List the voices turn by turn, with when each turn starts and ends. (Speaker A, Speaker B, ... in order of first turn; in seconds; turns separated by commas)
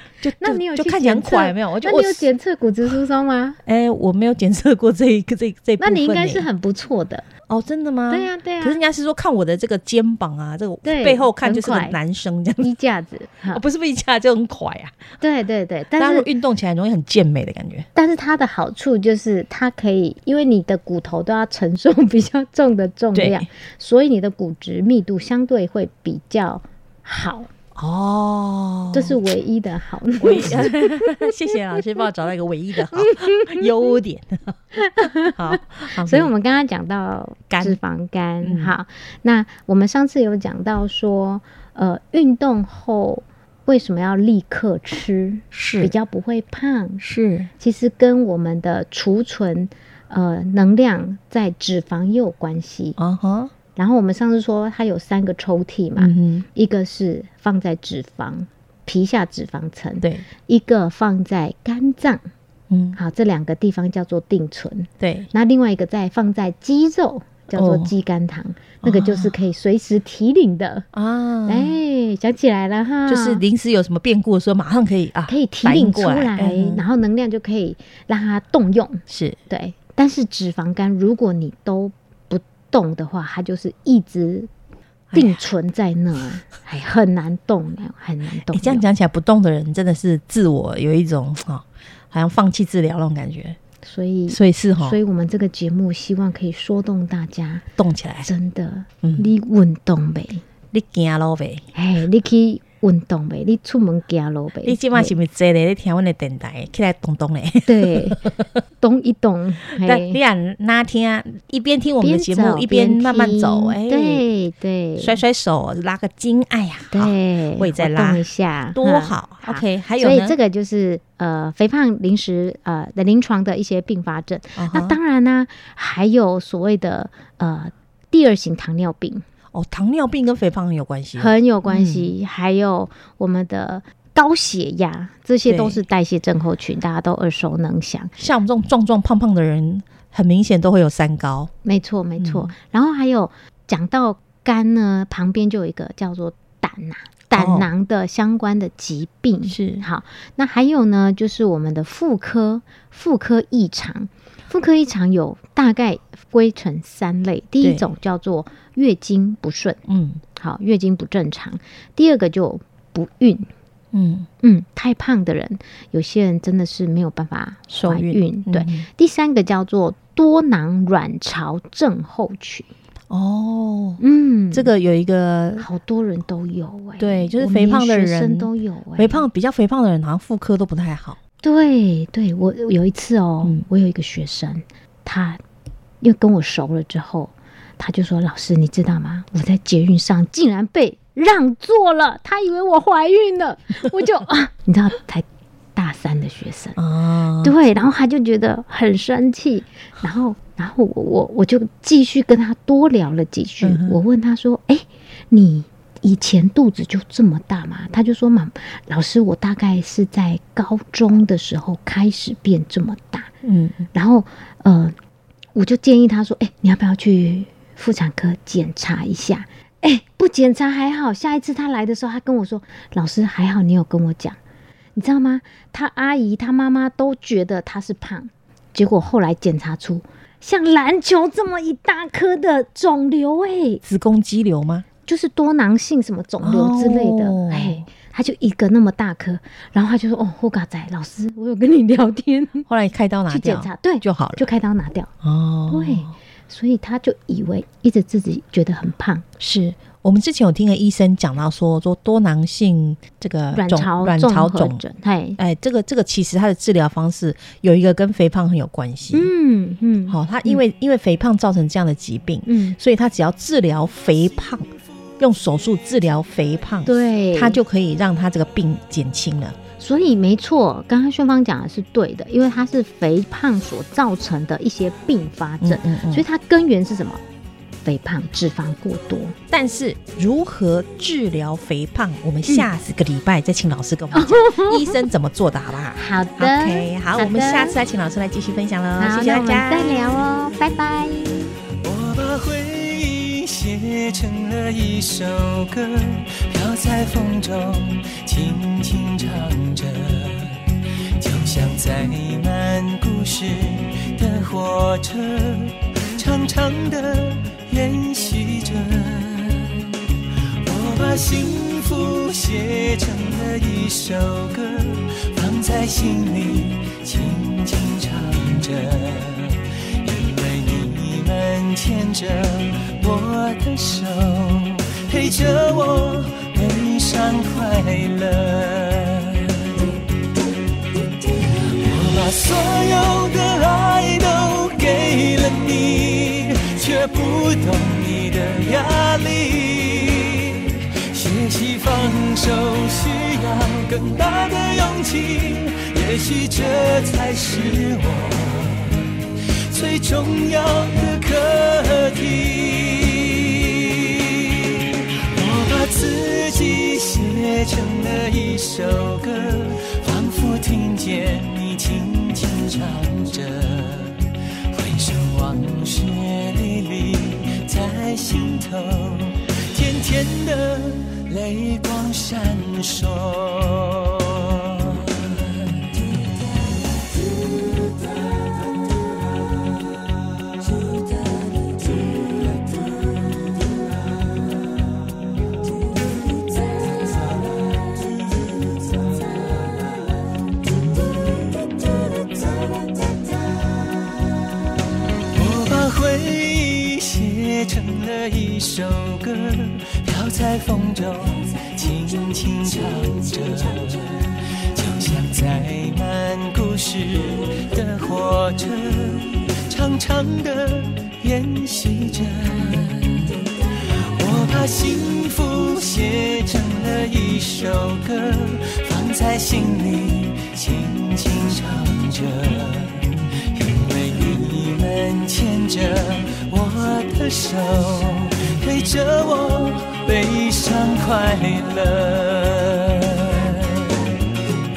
Speaker A: 0.2-2.3, Speaker B: 0.4-3.6, Speaker A: 3.6-6.5, Speaker B: 5.8-7.2, Speaker A: 7.5-12.7, Speaker B: 8.1-8.8, Speaker B: 10.8-12.0, Speaker B: 12.6-13.6, Speaker A: 13.5-15.0, Speaker B: 15.2-16.3, Speaker A: 16.0-17.9, Speaker B: 17.9-27.5, Speaker A: 23.1-23.5, Speaker A: 27.8-29.1, Speaker B: 28.9-31.2, Speaker A: 30.2-36.3, Speaker B: 33.0-33.6, Speaker B: 34.8-47.0, Speaker A: 37.5-37.8, Speaker A: 38.4-38.7, Speaker A: 45.5-45.9, Speaker A: 47.0-47.5, Speaker B: 47.6-53.0, Speaker A: 53.0-53.5, Speaker B: 53.8-62.2, Speaker A: 56.0-56.5, Speaker A: 62.7-63.0, Speaker B: 63.0-70.9, Speaker A: 65.0-65.3, Speaker A: 67.5-67.9, Speaker A: 68.8-69.3, Speaker A: 70.9-71.8, Speaker B: 71.5-73.4, Speaker A: 73.1-76.8, Speaker B: 75.3-84.5, Speaker A: 79.1-79.4, Speaker A: 85.1-85.4, Speaker B: 85.1-88.9, Speaker A: 88.5-93.6, Speaker B: 93.8-97.7, Speaker A: 94.3-95.0, Speaker A: 97.8-98.3, Speaker B: 98.2-100.4, Speaker A: 99.0-99.3, Speaker A: 100.7-101.7, Speaker B: 101.7-105.2, Speaker A: 104.7-108.5, Speaker B: 107.7-108.3, Speaker B: 108.8-110.2, Speaker A: 109.8-114.3, Speaker B: 112.0-115.2, Speaker A: 115.0-120.4, Speaker B: 116.9-129.2, Speaker A: 124.6-125.0, Speaker A: 129.5-132.1, Speaker B: 131.2-138.1, Speaker A: 135.4-135.8, Speaker A: 138.2-141.5, Speaker B: 141.6-159.8, Speaker A: 142.2-142.5, Speaker A: 147.3-147.7, Speaker A: 149.5-149.8, Speaker A: 159.9-160.2, Speaker B: 160.4-163.5, Speaker A: 163.9-164.3, Speaker B: 164.4-172.7, Speaker A: 167.7-168.9, Speaker A: 173.1-175.7, Speaker B: 174.0-174.7, Speaker B: 175.6-179.3, Speaker A: 177.0-181.2, Speaker B: 181.4-185.4, Speaker B: 186.0-195.2, Speaker B: 195.8-196.8, Speaker A: 196.8-197.6, Speaker B: 197.4-213.3, Speaker A: 203.6-204.0, Speaker A: 213.4-213.9, Speaker B: 213.9-215.0, Speaker B: 215.6-224.4, Speaker B: 225.0-233.8, Speaker A: 233.8-234.9, Speaker B: 235.1-242.7, Speaker A: 236.4-237.9, Speaker A: 242.7-244.5, Speaker B: 243.3-245.1, Speaker A: 245.2-246.2, Speaker B: 245.7-249.2, Speaker A: 249.4-254.8, Speaker B: 253.5-255.4, Speaker A: 255.4-259.3, Speaker B: 259.1-260.6, Speaker A: 260.1-269.6, Speaker B: 262.5-262.8, Speaker B: 266.9-267.6, Speaker B: 269.8-277.2, Speaker A: 275.6-276.2, Speaker B: 277.8-279.4, Speaker A: 279.5-290.2, Speaker B: 284.1-285.0, Speaker B: 285.9-287.8, Speaker B: 289.0-291.5, Speaker C: 291.8-310.0, Speaker C: 310.6-329.8, Speaker C: 331.5-376.9, Speaker C: 381.6-382.8, Speaker C: 387.1-387.3, Speaker C: 388.9-389.5, Speaker C: 391.2-392.9, Speaker C: 395.3-434.0